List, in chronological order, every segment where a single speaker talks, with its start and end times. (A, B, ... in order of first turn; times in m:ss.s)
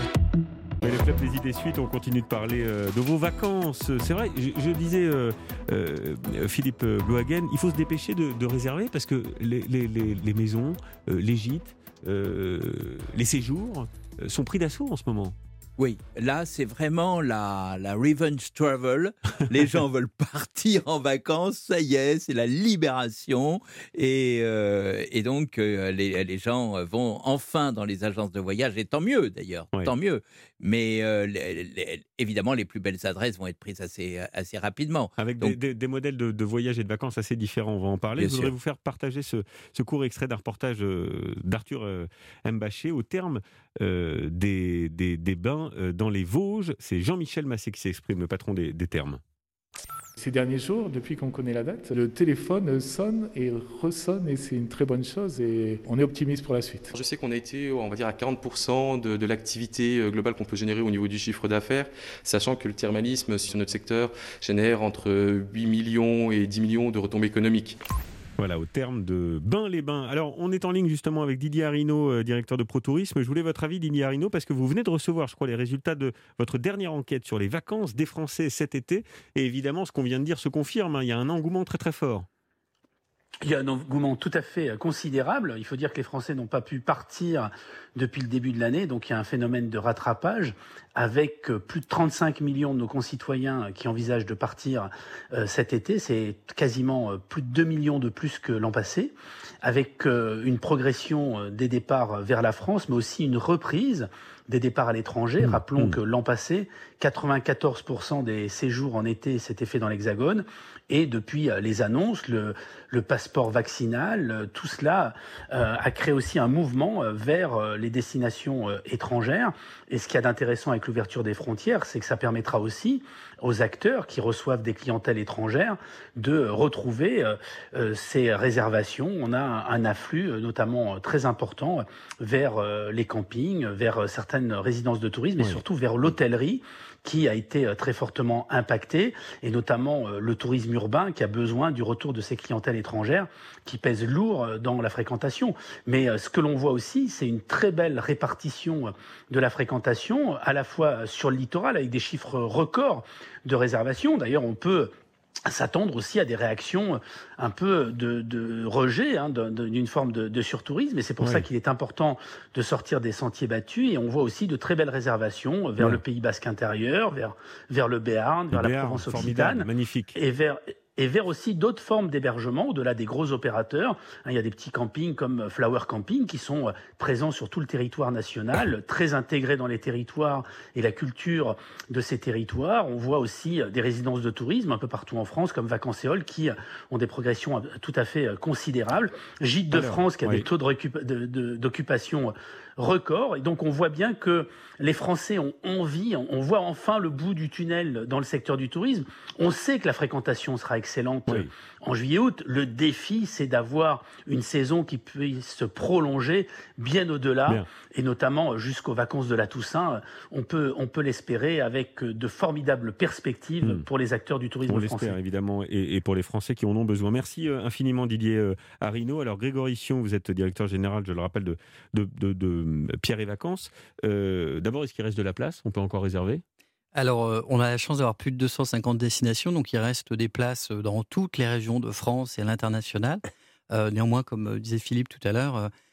0:00.8-0:15.3 A
0:15.8-0:35.6 B
0:35.2-0:49.2 A
0:38.2-0:38.5 B
0:50.2-0:56.9 C
0:56.9-1:07.8 D
1:08.4-1:22.3 A
1:23.4-2:34.9 E
1:45.4-1:46.0 A
2:35.5-3:35.2 E
2:41.2-2:41.5 A
2:48.5-2:50.2 A
3:09.7-3:10.5 A
3:34.7-3:46.4 A
3:46.9-3:55.7 F